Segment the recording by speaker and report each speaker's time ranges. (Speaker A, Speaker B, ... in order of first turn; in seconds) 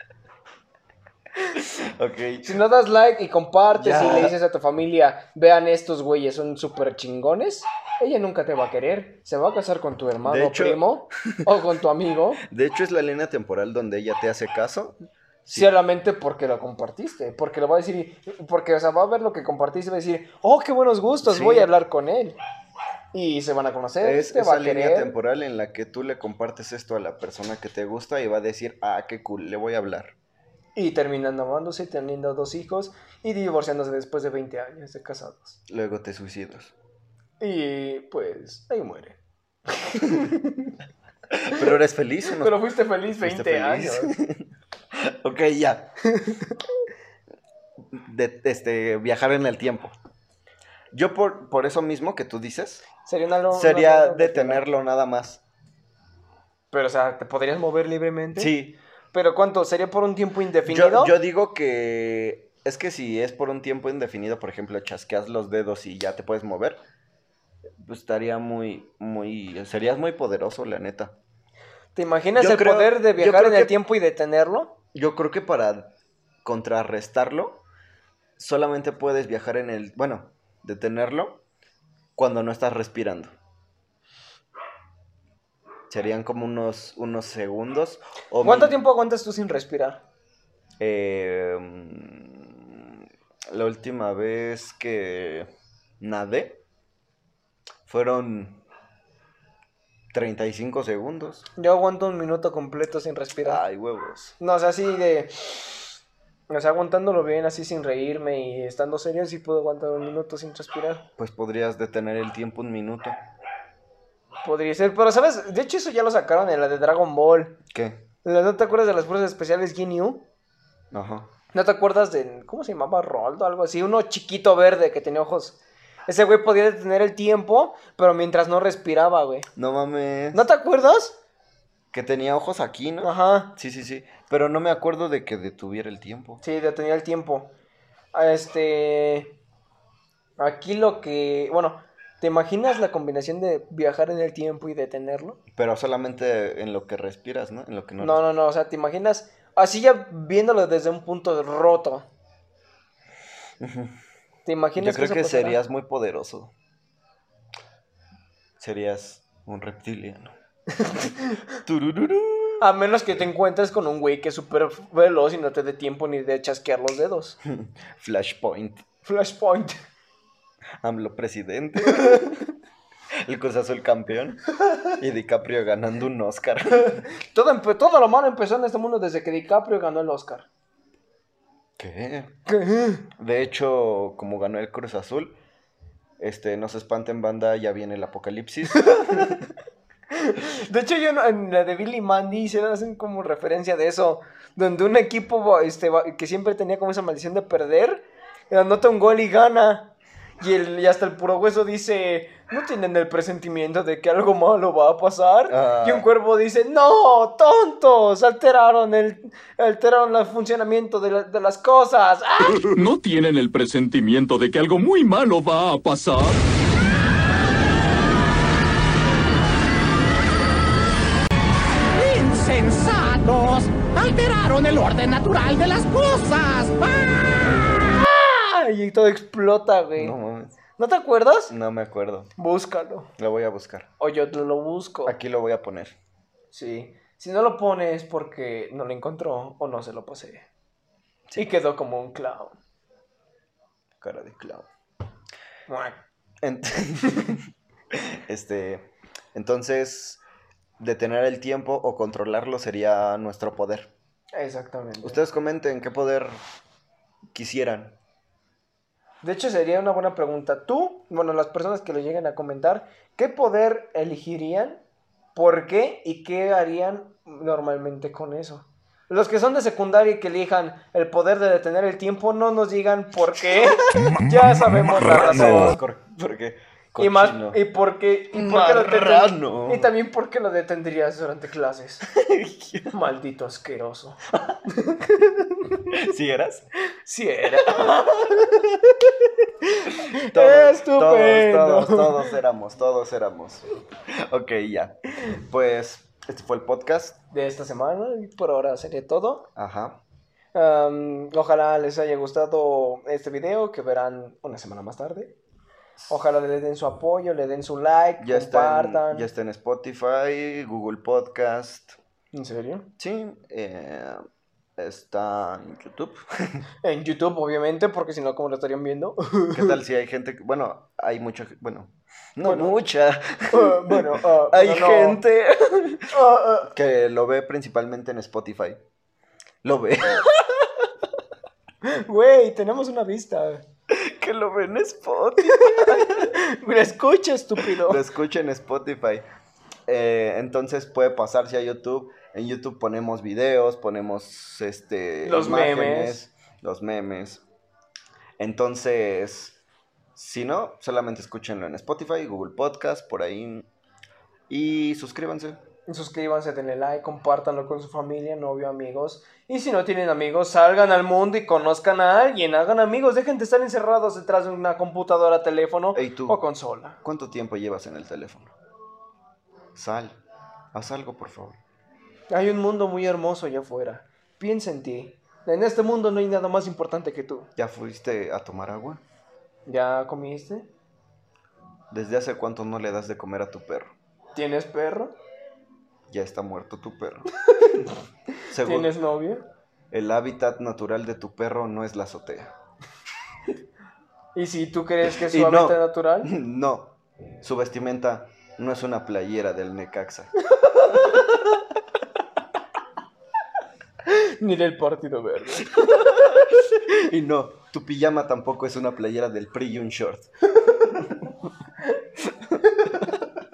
Speaker A: 1.5-2.6, 3.7-4.3, 10.2-11.4, 12.5-15.7, 21.2-21.7, 24.0-30.1, 35.7-36.7, 41.5-45.9, 47.9-49.9, 50.9-52.9, 53.5-55.4, 58.4-58.8, 60.6-66.8, 67.8-71.2, 72.4-73.7, 74.9-75.9, 76.4-77.6, 78.4-81.4, 82.2-83.3, 85.9-88.8, 90.8-92.9, 93.5-95.5, 96.0-96.6, 97.9-98.6, 100.1-101.5, 103.4-104.3, 111.2-113.2, 117.7-118.0, 120.9-121.3, 129.6-130.4, 131.9-136.4, 145.5-148.2, 153.6-154.0, 154.8-156.5, 158.6-160.3, 161.6-162.6, 167.5-168.8, 170.8-172.4, 173.2-177.0, 181.8-182.4, 183.2-185.4, 186.2-189.4, 205.5-206.1, 230.0-230.6, 231.5-232.3, 233.2-233.9, 235.1-235.9, 244.0-244.7, 246.4-247.4, 248.0-250.2, 250.8-253.9, 255.0-256.4, 257.3-258.0, 275.1-277.6, 278.3-279.9, 282.1-282.9, 285.9-286.7, 287.5-288.6, 290.1-297.2, 299.6-300.0, 308.2-312.0, 313.0-314.2, 314.8-316.6, 319.5-326.1, 326.7-328.8, 329.6-330.3, 333.9-336.3, 337.7-339.3, 339.9-347.4, 348.4-349.6, 350.2-353.7, 354.5-355.6, 365.9-366.4, 367.0-368.5, 369.8-370.2, 370.7-371.6, 377.6-379.0, 381.9-383.9, 386.1-387.3, 388.5-388.9, 389.9-392.5, 395.1-400.3, 400.9-401.6, 405.6-411.3, 412.7-413.1
Speaker B: 2.5-12.4, 15.5-22.4, 23.1-25.1, 30.8-35.6, 37.4-39.2, 39.8-40.7, 42.4-44.1, 46.1-46.5, 53.1-54.6, 56.7-58.5, 59.1-61.1, 72.0-74.8, 88.4-90.0, 101.6-103.6, 104.4-105.9, 106.5-111.1, 114.4-117.6, 118.2-120.3, 121.5-129.5, 130.3-131.2, 133.0-133.5, 136.4-137.5, 138.1-139.4, 140.4-145.4, 148.0-152.1, 154.5-155.6, 160.8-161.4, 162.6-167.4, 169.1-169.8, 171.8-172.3, 177.3-180.5, 182.5-183.0, 190.2-212.8, 228.0-230.2, 230.8-231.5, 232.4-233.1, 234.0-235.2, 236.5-240.5, 241.4-242.6, 245.7-246.0, 254.3-255.2, 259.2-264.8, 265.4-275.8, 277.0-282.1, 282.9-284.2, 284.8-285.1, 287.1-288.5, 289.8-292.2, 297.3-299.5, 300.5-305.4, 306.1-309.3, 312.3-312.9, 316.8-319.8, 322.4-322.8, 323.5-325.2, 326.1-326.7, 331.9-333.6, 335.5-338.0, 345.2-346.2, 355.9-367.0, 372.3-377.5, 379.7-380.7, 384.4-385.1, 388.6-389.5, 394.4-396.3, 404.1-405.7
Speaker C: 212.5-216.4
Speaker D: 222.0-227.1